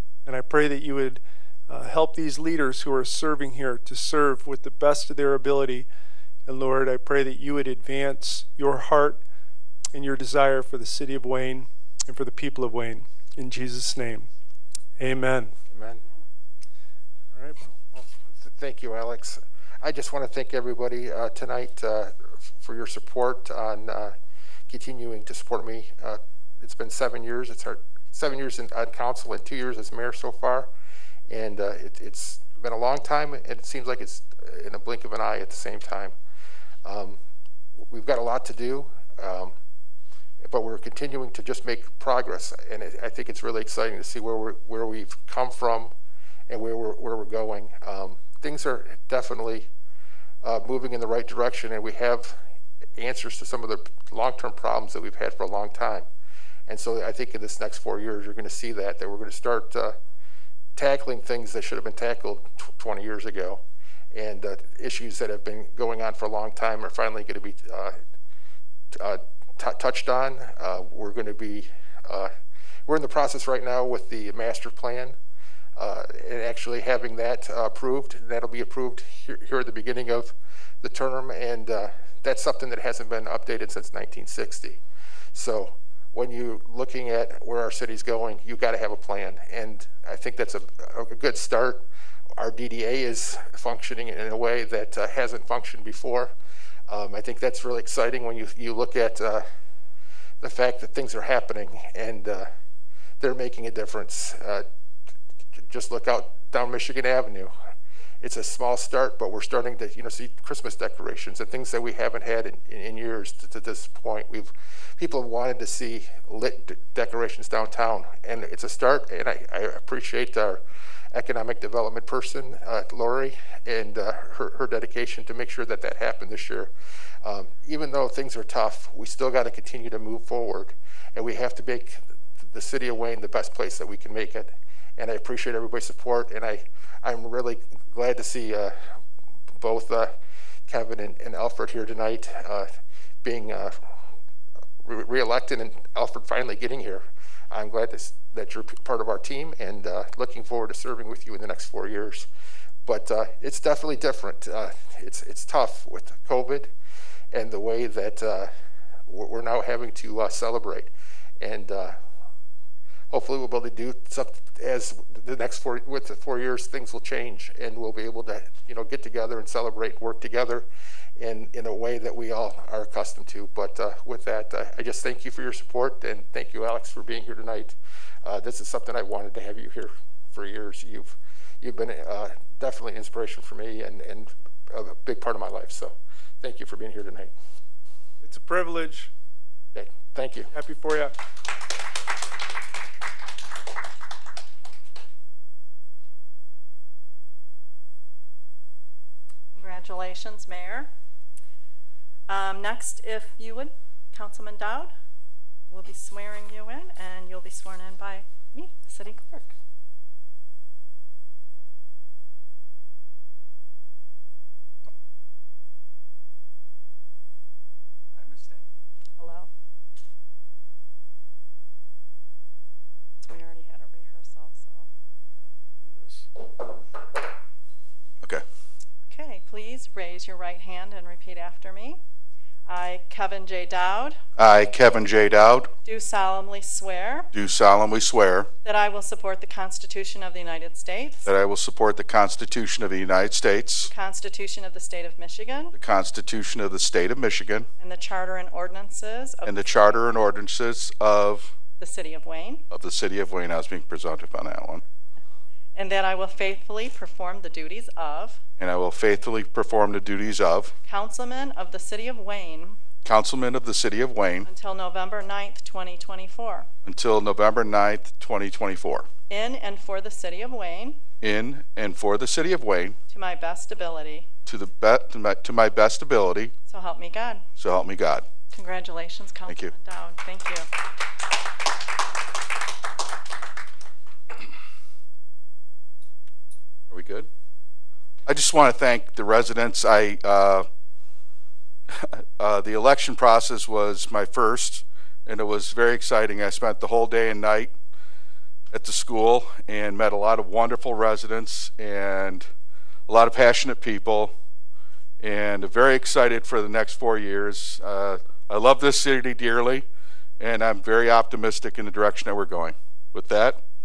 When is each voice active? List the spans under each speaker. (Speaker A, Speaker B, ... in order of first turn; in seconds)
Speaker A: 0.2-5.9, 6.5-9.2, 9.9-14.3, 15.0-15.5, 17.3-17.8, 188.2-189.1, 190.5-191.1
Speaker B: 15.7-16.0, 17.9-24.1, 24.7-30.7, 31.3-36.1, 36.8-37.2, 37.9-39.5, 40.4-45.9, 46.5-49.7, 50.4-52.4, 53.0-56.1, 56.7-59.9, 60.8-68.0, 68.9-72.3, 72.9-75.2, 75.8-84.8, 85.3-91.8, 92.4-96.3, 96.9-99.4, 100.4-102.5, 103.2-104.6, 105.7-107.5, 108.2-120.6, 121.1-126.7, 127.2-138.9, 139.6-140.1, 140.7-142.7, 143.2-143.9, 144.8-152.3, 152.8-156.7, 157.3-158.5, 159.1-162.0, 163.1-170.7, 171.2-187.3, 189.7-190.5
Speaker C: 199.6-200.9, 202.3-204.9, 205.7-209.5, 219.2-219.5, 223.2-224.9, 229.1-232.0, 232.7-234.2, 235.8-237.3, 238.6-241.3, 243.9-245.7, 247.8-249.8, 251.8-252.6, 255.7-258.4, 260.9-262.8, 264.5-266.7, 269.3-271.0, 273.1-274.3, 276.7-277.4, 278.5-280.7
Speaker D: 218.2-218.6, 225.8-226.2, 234.4-235.7, 237.3-238.5, 241.2-243.9, 245.7-247.7, 249.4-251.5, 252.7-254.8, 258.6-260.7, 263.0-264.5, 266.9-269.1, 271.2-272.9, 274.4-276.5, 277.6-278.2, 279.5-279.7, 286.9-287.3, 288.2-290.7, 292.0-297.7, 298.7-302.5, 303.1-304.3, 305.2-309.9, 310.4-313.6